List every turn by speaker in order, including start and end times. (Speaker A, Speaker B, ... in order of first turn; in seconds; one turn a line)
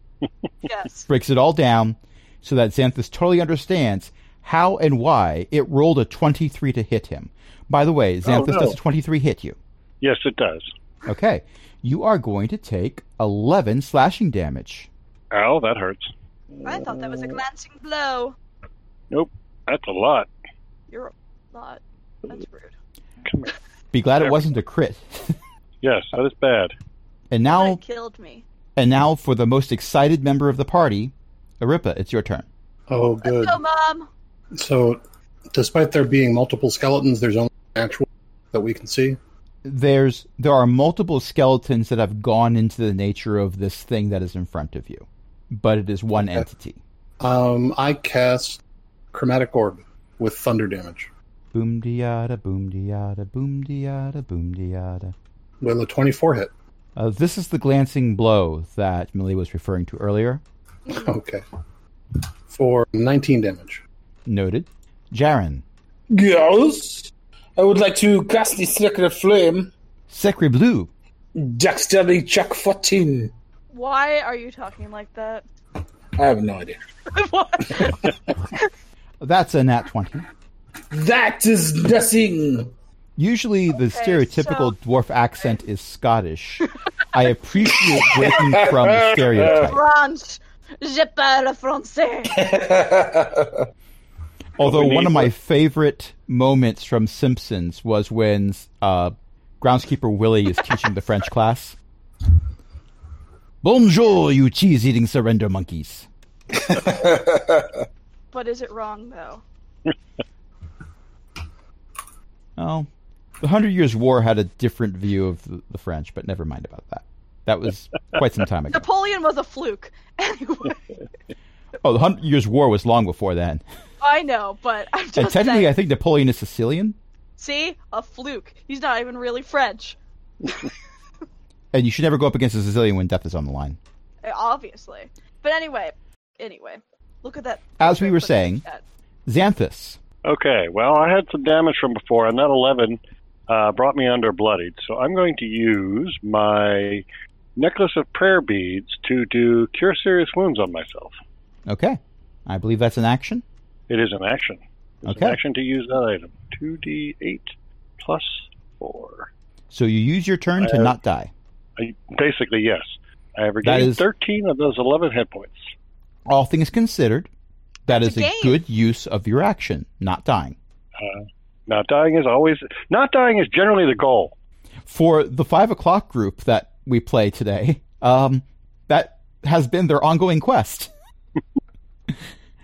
Speaker A: 0.6-1.1
Speaker B: 1.1-9.6
Speaker C: 8.2-8.7
Speaker C: 10.0-10.7
Speaker B: 11.1-14.9
Speaker C: 15.3-16.1
Speaker A: 16.6-18.4
Speaker D: 16.7-17.3
Speaker C: 19.1-20.3
Speaker A: 20.9-22.7
Speaker C: 23.2-23.5
Speaker B: 23.9-25.4
Speaker C: 25.8-26.7
Speaker B: 27.3-27.8
Speaker A: 27.5-28.4
Speaker B: 28.8-32.5
Speaker E: 32.9-33.6
Speaker A: 33.2-34.1
Speaker E: 34.5-35.0
Speaker E: 35.5-39.2
Speaker B: 39.6-46.8
Speaker E: 47.2-48.6
Speaker E: 49.1-51.1
Speaker B: 51.5-55.1
Speaker E: 55.6-56.5
Speaker B: 57.0-60.4
Speaker E: 60.9-61.4
Speaker E: 62.5-63.8
Speaker B: 64.2-65.6
Speaker D: 66.1-69.7
Speaker B: 70.1-70.9
Speaker D: 71.3-73.3
Speaker A: 73.7-75.4
Speaker D: 76.2-76.8
Speaker A: 77.1-78.7
Speaker B: 79.2-80.2
Speaker D: 80.9-82.7
Speaker B: 83.2-89.8
Speaker A: 83.7-84.7
Speaker A: 87.7-88.2
Speaker D: 88.0-89.7
Speaker A: 89.5-92.4
Speaker D: 92.3-93.6
Speaker B: 94.6-101.8
Speaker D: 94.6-95.3
Speaker B: 103.6-106.1
Speaker D: 106.5-107.8
Speaker A: 108.3-109.4
Speaker B: 112.6-112.9
Speaker B: 113.4-118.8
Speaker A: 118.7-120.8
Speaker B: 121.8-123.6
Speaker A: 124.0-125.7
Speaker B: 125.1-127.0
Speaker A: 127.4-129.9
Speaker B: 131.7-133.8
Speaker A: 134.2-138.8
Speaker B: 137.8-138.6
Speaker B: 139.3-140.0
Speaker C: 140.2-147.0
Speaker C: 147.6-151.2
Speaker B: 151.7-153.4
Speaker C: 153.9-159.3
Speaker B: 155.0-155.4
Speaker B: 159.7-161.3
Speaker C: 160.6-160.9
Speaker C: 161.8-165.7
Speaker B: 163.6-164.0
Speaker B: 166.3-167.3
Speaker B: 167.9-170.6
Speaker A: 167.9-168.6
Speaker C: 171.0-174.3
Speaker B: 174.8-180.9